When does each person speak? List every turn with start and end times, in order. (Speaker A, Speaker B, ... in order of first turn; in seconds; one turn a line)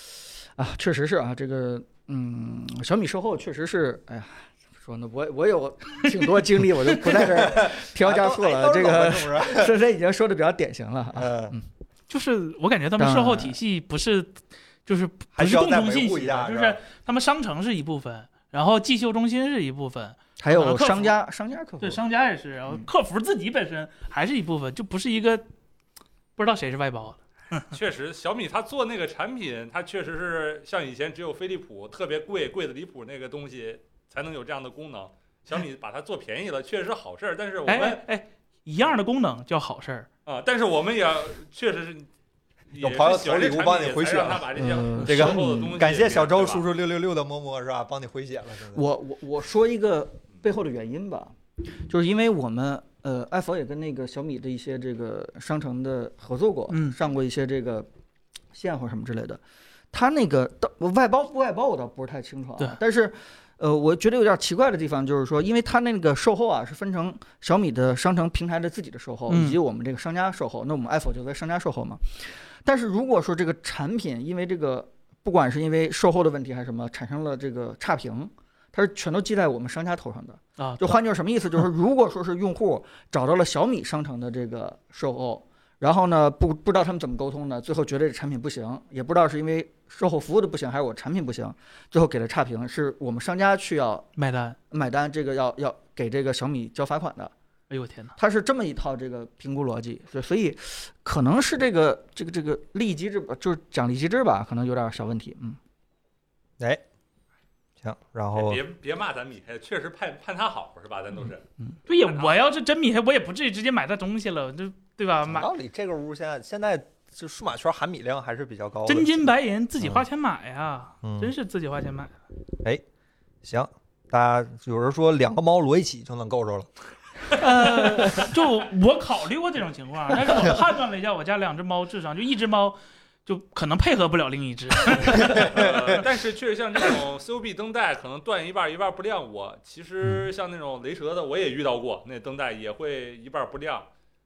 Speaker A: 0.6-11.6
Speaker B: 7.1-9.8
Speaker B: 11.1-11.6
Speaker C: 12.1-21.1
Speaker A: 13.0-13.6
Speaker B: 15.3-16.8
Speaker A: 20.4-22.0
Speaker C: 21.8-25.4
Speaker C: 26.4-27.7
Speaker D: 27.7-38.0
Speaker C: 37.7-40.1
Speaker D: 40.3-42.1
Speaker D: 42.7-46.6
Speaker B: 42.8-48.8
Speaker A: 44.6-45.8
Speaker A: 48.7-57.9
Speaker C: 56.7-57.0
Speaker A: 58.5-59.4
Speaker A: 59.9-94.1
Speaker C: 69.3-69.6
Speaker C: 80.6-81.0
Speaker C: 94.2-94.6
Speaker A: 94.7-97.3
Speaker C: 97.7-98.2
Speaker A: 98.2-105.6
Speaker B: 107.8-108.6
Speaker D: 108.3-111.4
Speaker C: 111.9-115.5
Speaker D: 112.0-112.3
Speaker B: 115.3-120.1
Speaker C: 118.9-122.1
Speaker B: 121.0-121.3
Speaker B: 123.4-126.7
Speaker C: 127.4-135.7
Speaker A: 127.7-128.3
Speaker D: 135.1-143.9